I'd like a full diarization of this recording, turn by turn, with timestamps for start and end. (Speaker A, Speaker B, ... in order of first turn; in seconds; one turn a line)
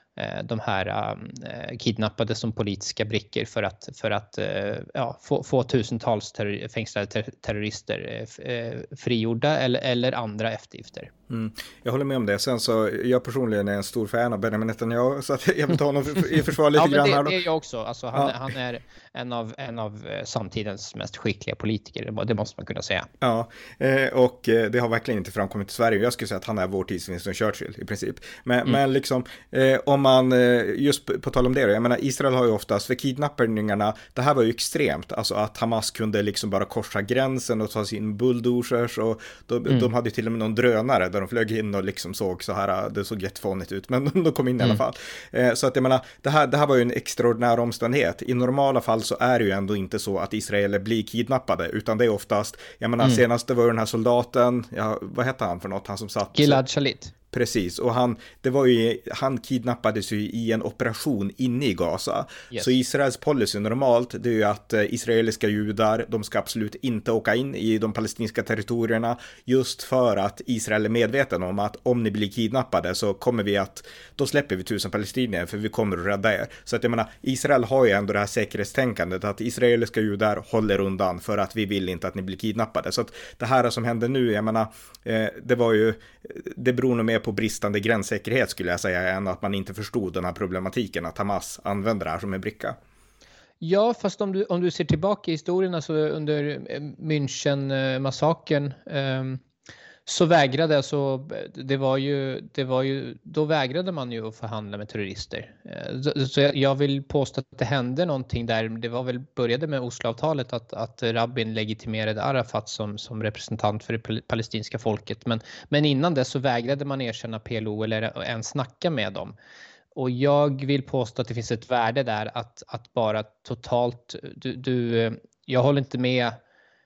Speaker A: 0.2-11.1
Speaker B: 11.3-17.4
Speaker A: 16.7-23.1
Speaker B: 23.2-56.6
Speaker A: 56.3-57.1
Speaker B: 57.3-92.8
Speaker A: 93.6-99.4
Speaker A: 100.1-119.3
Speaker A: 120.0-126.4